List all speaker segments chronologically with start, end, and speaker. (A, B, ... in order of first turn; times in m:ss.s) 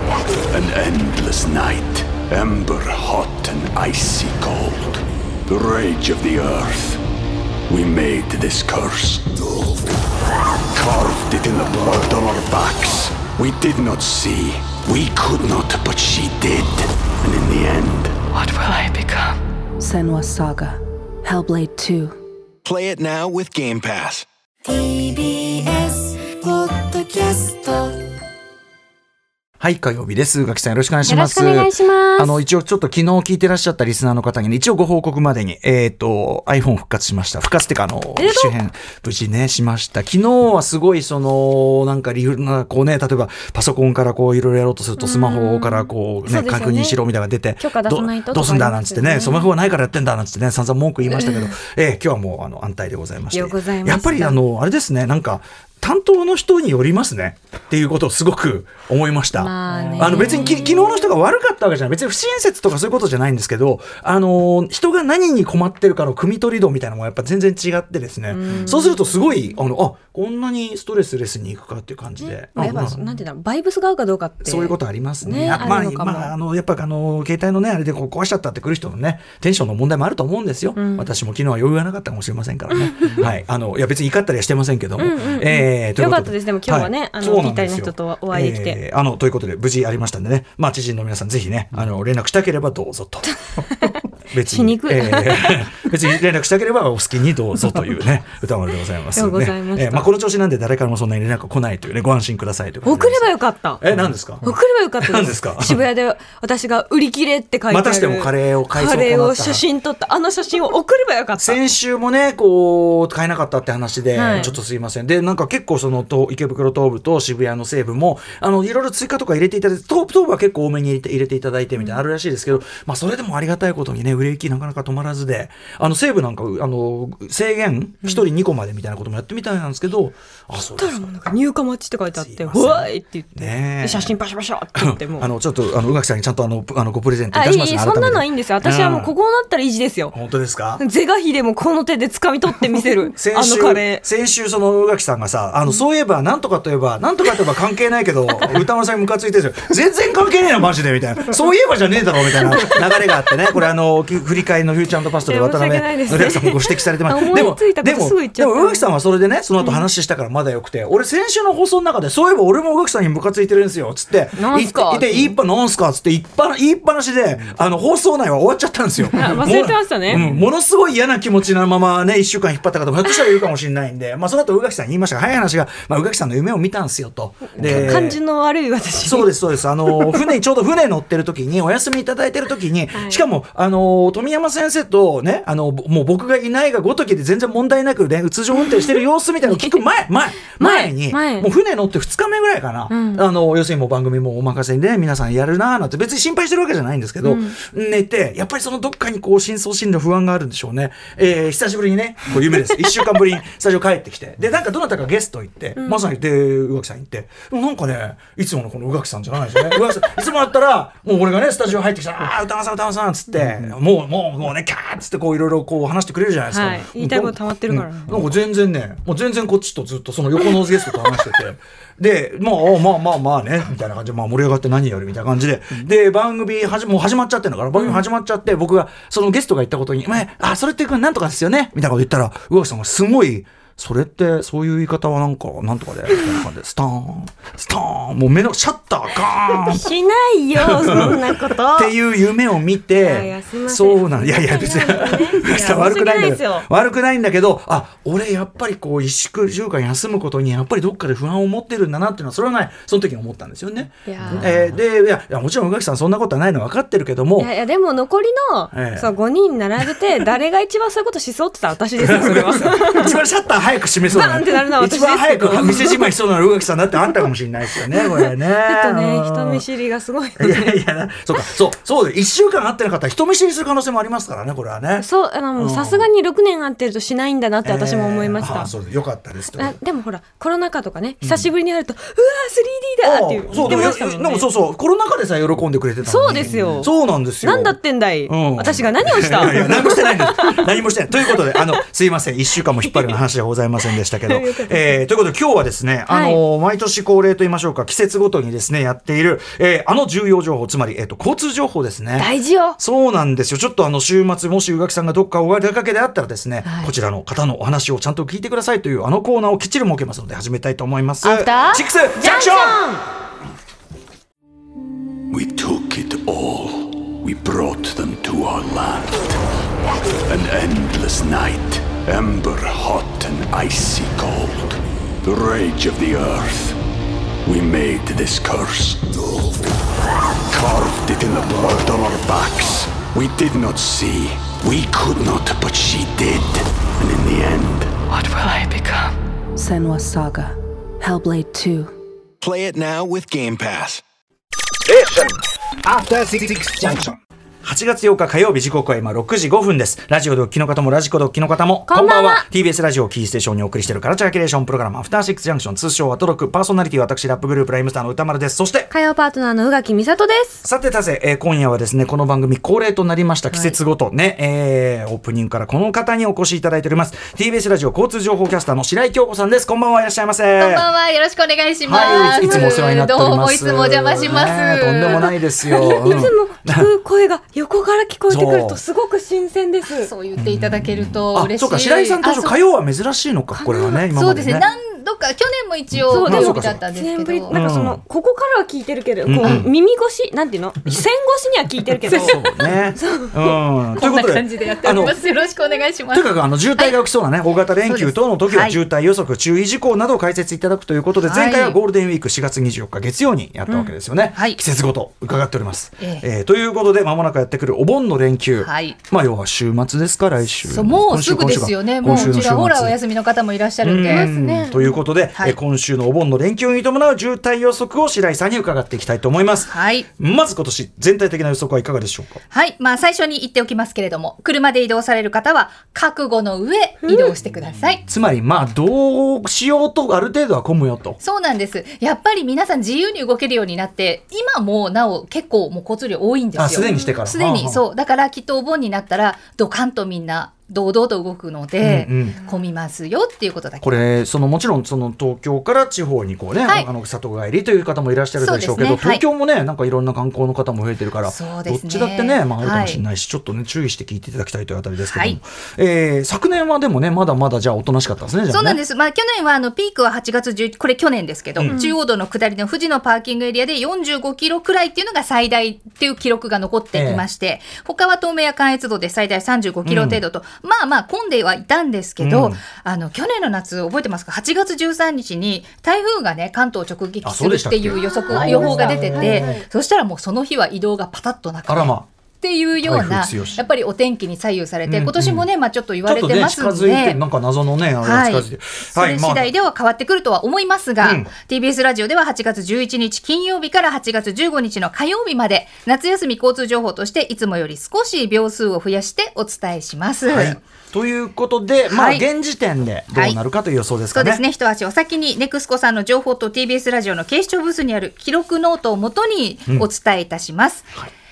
0:00.5-0:07.0 A
0:07.7-0:09.3 A
0:10.7-0:18.2 A
0:18.3-0:19.4 B
0:19.8-0:22.2 C
0:22.6-0:24.2 D
0:24.6-0:28.0 E
0:29.6-1:13.0 F
0:31.0-0:32.4 G
0:38.2-0:38.5 G
0:45.0-0:47.0 G
0:47.6-0:49.5 G
0:51.1-0:51.6 G
0:53.3-0:54.4 G
0:59.4-1:01.1 G
1:08.3-1:09.1 G
1:12.2-1:16.3 G
1:14.4-1:33.4 F
1:20.8-1:21.1 G
1:22.7-1:23.3 G
1:25.0-1:28.8 G
1:33.3-1:35.9 G
1:34.3-1:45.8 F
1:39.1-1:40.1 G
1:42.8-1:43.8 G
1:44.4-1:51.6 G
1:47.7-1:49.6 F
1:51.4-2:11.4 F
1:54.1-1:54.6 G
2:01.8-2:02.0 G
2:10.7-2:15.3 G
2:12.1-2:14.2 F
2:14.7-2:19.1 F
2:17.3-2:20.2 G
2:20.1-2:20.8 F
2:20.8-2:24.0 G
2:23.1-2:58.2 F
2:32.5-2:32.8 G
2:35.3-2:38.9 G
2:39.6-2:39.8 G
2:44.4-2:45.3 G
2:49.1-2:50.3 G
2:57.5-2:59.3 G
2:59.0-3:59.9 F
2:59.8-3:00.2 G
3:02.9-3:03.2 G
3:08.6-3:08.9 G
3:10.5-3:11.5 G
3:12.9-3:13.2 G
3:17.2-3:17.6 G
3:25.8-3:26.0 G
3:36.5-3:38.2 G
3:47.8-3:48.0 G
3:59.5-4:01.9 G
4:00.6-4:17.5 F
4:03.0-4:06.7 G
4:14.0-4:14.7 G
4:17.4-4:23.2 G
4:18.7-4:19.1 F
4:22.0-4:29.6 F
4:24.1-4:26.1 G
4:27.9-4:30.8 G
4:30.4-4:36.1 F
4:35.0-4:38.7 G
4:37.6-4:39.8 F
4:39.6-4:44.5 G
4:41.2-4:41.5 F
4:43.0-5:12.8 F
4:46.0-4:50.7 G
4:51.3-4:51.7 G
4:54.2-4:55.0 G
4:56.1-4:56.4 G
5:02.2-5:02.8 G
5:06.6-5:06.9 G
5:11.2-5:13.0 G
5:15.3-5:19.4 A
5:20.3-5:26.8 A
5:27.4-5:29.0 A
5:30.5-5:37.9 A
5:38.1-5:39.2 B
5:39.6-5:42.0 C
5:42.4-5:44.0 D
5:44.8-5:47.2 D
5:47.6-5:58.9 F
5:51.9-5:52.4 G
5:58.9-6:00.6 G
6:00.6-6:10.9 F
6:10.6-6:15.3 H
6:11.8-6:16.9 F
6:12.0-6:12.7 G
6:14.2-6:20.1 G
6:18.3-6:18.8 F
6:19.9-6:22.5 H
6:20.4-6:24.6 F
6:23.5-6:24.6 G
6:24.1-6:27.6 H
6:25.9-6:26.8 F
6:26.1-6:33.5 G
6:27.5-6:28.0 F
6:29.2-6:29.7 F
6:32.0-6:35.2 F
6:32.1-6:32.4 H
6:34.0-6:36.9 H
6:36.1-6:53.0 F
6:37.9-6:38.8 H
6:41.2-6:41.8 H
6:46.0-6:46.2 H
6:48.6-6:49.0 H
6:50.7-6:54.3 H
6:53.8-7:02.4 F
6:54.0-6:55.0 G
6:59.7-7:00.1 H
7:02.5-7:08.0 H
7:07.0-7:07.3 G
7:08.0-7:11.2 F
7:11.2-7:24.0 H
7:16.6-7:17.8 F
7:16.8-7:17.2 G
7:21.8-7:22.4 F
7:23.8-7:38.8 F
7:28.4-7:29.2 H
7:31.3-7:33.0 H
7:35.0-7:35.4 H
7:38.5-8:07.2 H
7:41.7-7:42.0 G
7:46.9-7:47.2 F
7:49.8-7:50.2 F
7:52.2-7:52.6 F
7:57.2-7:59.6 F
7:58.1-7:59.6 G
8:01.7-8:02.0 F
8:02.8-8:03.6 F
8:04.8-8:05.5 F
8:06.0-8:09.5 F
8:08.0-8:20.6 H
8:11.0-8:11.3 F
8:20.2-8:24.4 F
8:21.9-8:22.2 H
8:23.1-8:23.4 H
8:24.1-8:30.9 H